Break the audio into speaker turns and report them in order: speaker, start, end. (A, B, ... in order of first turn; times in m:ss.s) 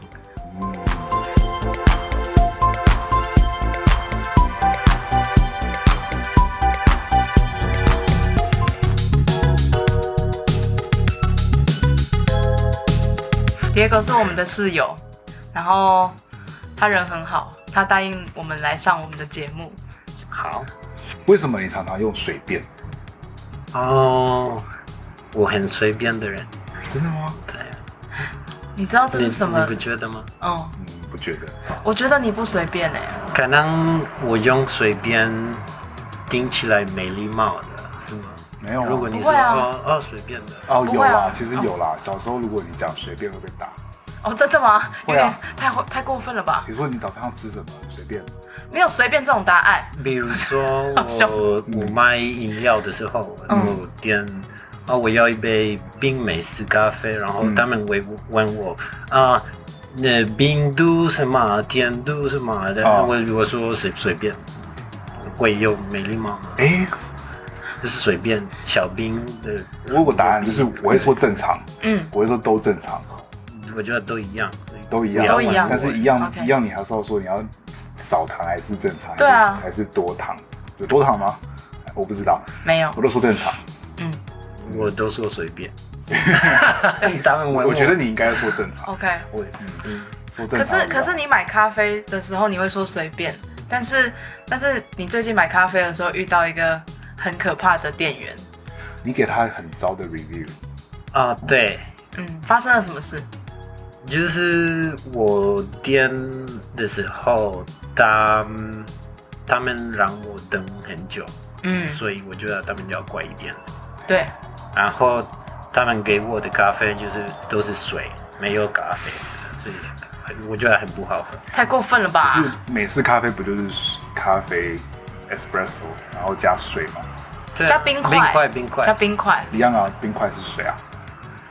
0:00.4-0:01.1 A
0:13.7-0:15.0 B
0:15.5-0:16.2 B
0:16.8-0:19.8 B
0:20.3-0:20.7 C
0:21.3-0:22.7 A
0:23.7-0:24.7 C
0:25.3-0:26.5 C
0:26.9-0:27.4 A
0:27.5-0:27.8 C
0:28.8-0:29.8 B
0:29.1-0:30.3 C
0:30.4-0:30.8 B
0:30.8-0:31.6 A
0:31.8-0:33.3 B
0:33.3-0:35.7 C
0:36.3-0:40.7 C
0:38.6-0:39.1 A
0:39.1-0:39.7 B
0:40.7-0:43.8 A
0:40.8-0:41.7 B
0:44.2-0:46.7 B
0:45.0-0:45.4 A
0:46.7-0:48.3 A
0:48.7-0:51.4 B
0:50.0-1:04.5 C
0:51.7-0:52.0 A
0:53.5-0:53.8 B
0:53.5-0:53.8 A
1:02.8-1:03.1 A
1:05.2-1:06.7 C
1:06.6-1:07.0 A
1:07.8-1:11.2 C
1:09.9-1:13.2 A
1:11.8-1:12.1 B
1:13.5-1:16.1 C
1:14.9-1:23.6 A
1:15.2-1:16.5 B
1:19.2-1:19.6 B
1:22.6-1:23.0 B
1:24.6-1:28.5 C
1:26.1-1:26.8 A
1:27.5-1:28.9 A
1:28.8-1:29.3 B
1:29.3-1:30.2 C
1:29.6-1:31.2 A
1:30.5-1:38.5 B
1:39.0-1:40.6 A
1:41.1-1:41.9 C
1:42.2-1:43.3 B
1:44.0-1:48.9 C
1:49.5-1:51.3 C
1:51.6-1:52.0 B
1:51.8-1:53.6 C
1:54.1-1:54.3 B
1:54.7-2:01.5 C
2:01.5-2:02.6 B
2:02.2-2:07.1 A
2:07.6-2:09.0 C
2:07.7-2:09.7 B
2:09.5-2:10.8 A